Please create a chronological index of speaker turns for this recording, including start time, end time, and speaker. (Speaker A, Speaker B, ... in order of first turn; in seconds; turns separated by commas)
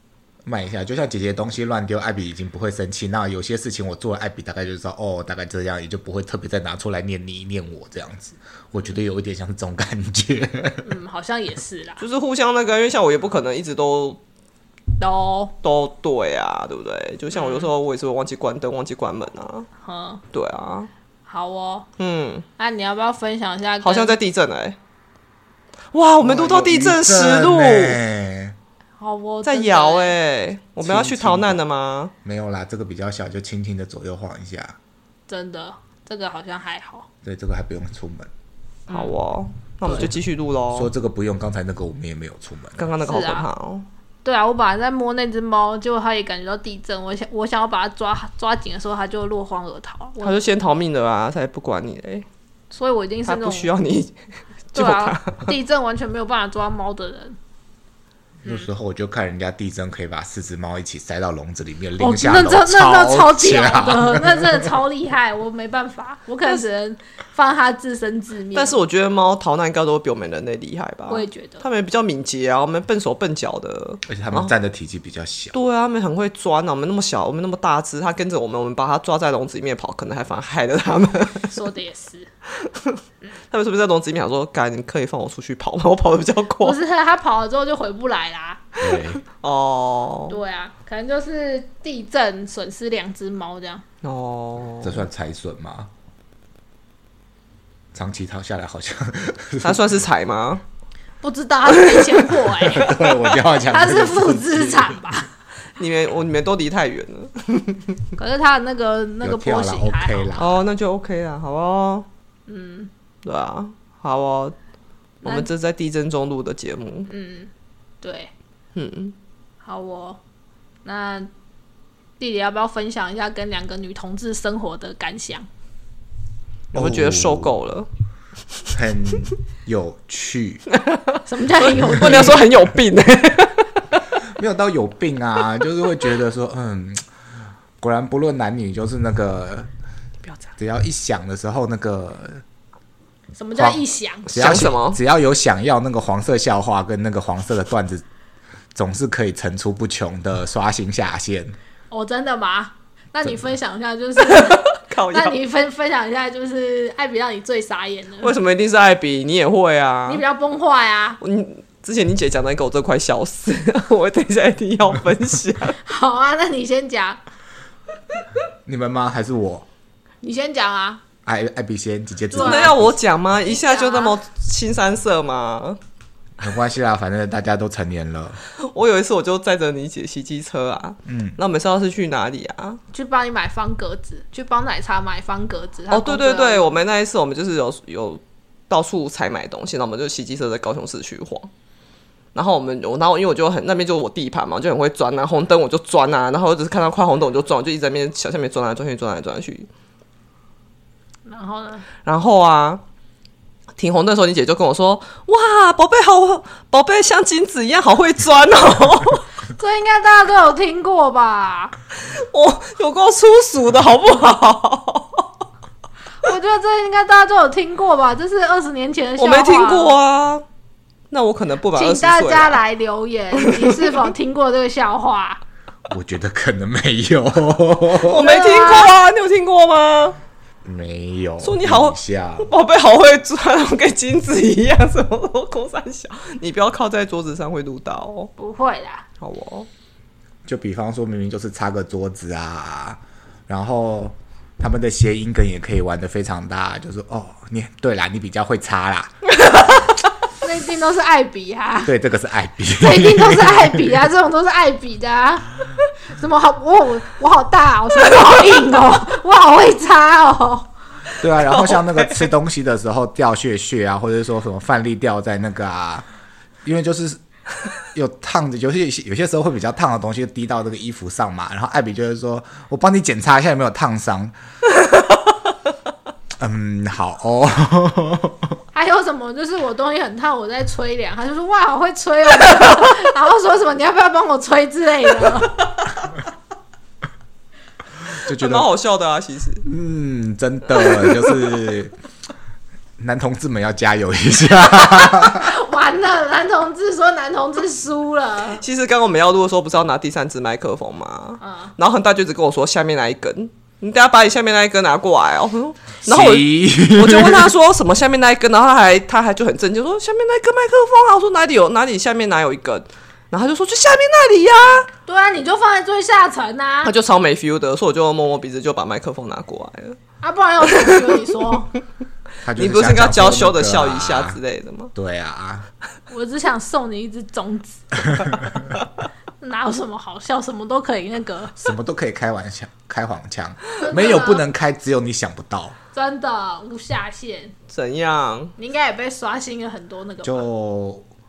Speaker A: 0.5-10.8, Speaker B: 10.8-12.0, Speaker C: 12.0-14.2, Speaker B: 15.0-15.5, Speaker C: 15.6-19.7, Speaker B: 17.3-17.7, Speaker B: 19.8-20.2, Speaker C: 20.3-20.9, Speaker B: 21.3-21.9, Speaker C: 22.0-22.5, Speaker B: 22.6-24.2, Speaker C: 23.8-24.8, Speaker C: 25.9-28.0, Speaker A: 26.2-28.6, Speaker B: 29.0-30.2, Speaker C: 29.4-32.1, Speaker A: 30.8-31.6, Speaker A: 32.2-34.8, Speaker B: 35.3-37.1, Speaker A: 37.2-38.3, Speaker C: 38.9-40.9, Speaker A: 39.9-40.2, Speaker A: 40.7-42.9, Speaker C: 42.8-43.9, Speaker B: 43.0-43.5, Speaker B: 44.2-50.4, Speaker C: 50.2-52.3, Speaker B: 52.7-53.7, Speaker C: 53.3-54.2, Speaker C: 54.7-55.5, Speaker B: 54.8-57.4, Speaker A: 58.5-64.7, Speaker B: 62.0-68.8, Speaker C: 68.5-74.5, Speaker B: 71.1-71.6, Speaker A: 74.1-75.5, Speaker C: 75.5-81.5, Speaker B: 81.5-82.3, Speaker C: 82.6-83.0, Speaker C: 83.5-86.8, Speaker B: 86.6-88.7, Speaker A: 88.8-89.2, Speaker C: 88.8-90.4, Speaker B: 90.3-93.8, Speaker C: 94.0-95.0, Speaker A: 94.8-95.9, Speaker A: 97.9-100.0, Speaker C: 99.6-100.6, Speaker B: 101.2-103.0, Speaker A: 102.5-105.2, Speaker B: 103.7-105.3, Speaker C: 105.8-108.0, Speaker B: 108.2-110.3, Speaker A: 109.2-110.7, Speaker C: 110.4-112.1, Speaker B: 112.5-112.9, Speaker C: 113.2-114.5, Speaker C: 115.2-117.1, Speaker B: 115.2-115.5, Speaker B: 117.1-117.5, Speaker B: 118.0-118.3, Speaker C: 118.8-119.2, Speaker B: 119.6-120.2, Speaker B: 120.8-121.3, Speaker B: 122.2-125.5, Speaker A: 126.7-127.5, Speaker C: 126.7-127.9, Speaker A: 128.7-130.7, Speaker C: 130.7-134.1, Speaker B: 131.3-132.4, Speaker A: 131.7-132.5, Speaker A: 134.2-137.1, Speaker A: 137.8-139.7, Speaker A: 140.6-142.4, Speaker B: 143.4-144.3, Speaker C: 144.3-145.0, Speaker A: 144.3-148.1, Speaker A: 148.7-151.6, Speaker B: 151.9-158.3, Speaker C: 154.2-155.4, Speaker C: 158.2-160.2, Speaker B: 160.1-161.2, Speaker C: 161.2-165.8, Speaker B: 165.8-167.2, Speaker A: 168.7-169.7, Speaker B: 170.2-171.0, Speaker A: 171.2-173.0, Speaker B: 172.3-172.7, Speaker C: 172.4-175.8, Speaker B: 173.4-174.2, Speaker A: 176.4-178.4, Speaker C: 178.6-182.8, Speaker A: 181.1-181.4, Speaker B: 182.9-186.8, Speaker C: 185.9-191.5, Speaker C: 192.3-199.7, Speaker B: 201.3-201.9, Speaker C: 202.1-202.8, Speaker C: 203.8-209.2, Speaker B: 209.5-211.8, Speaker C: 212.0-215.3, Speaker B: 216.2-220.0, Speaker C: 219.2-220.4, Speaker C: 221.1-222.6, Speaker B: 221.7-225.4, Speaker C: 223.3-224.0, Speaker A: 225.9-228.2, Speaker C: 228.0-230.2, Speaker B: 228.2-228.9, Speaker A: 230.6-232.5, Speaker C: 231.4-238.3, Speaker B: 238.4-239.1, Speaker C: 239.2-239.7, Speaker A: 240.4-249.3, Speaker B: 250.4-251.9, Speaker A: 251.8-254.0, Speaker B: 252.7-260.7, Speaker A: 261.2-266.1, Speaker C: 261.4-262.3, Speaker A: 266.6-267.2, Speaker A: 267.9-274.3, Speaker A: 276.4-278.6, Speaker B: 278.7-285.9, Speaker A: 288.2-288.7, Speaker C: 288.3-289.6, Speaker A: 289.6-291.9, Speaker A: 293.0-295.5, Speaker B: 294.6-298.6, Speaker C: 298.6-314.9, Speaker B: 301.4-301.7, Speaker A: 306.1-307.6, Speaker B: 315.1-316.9, Speaker C: 316.8-320.0, Speaker B: 320.2-321.7, Speaker C: 320.7-321.2, Speaker A: 322.4-324.4, Speaker C: 322.6-324.9, Speaker A: 324.9-325.7, Speaker B: 326.1-328.0, Speaker A: 328.1-328.6, Speaker B: 329.4-331.6, Speaker A: 331.6-335.8, Speaker B: 333.8-334.4, Speaker B: 335.9-337.6, Speaker C: 337.7-338.6, Speaker B: 338.6-340.4, Speaker A: 340.2-341.1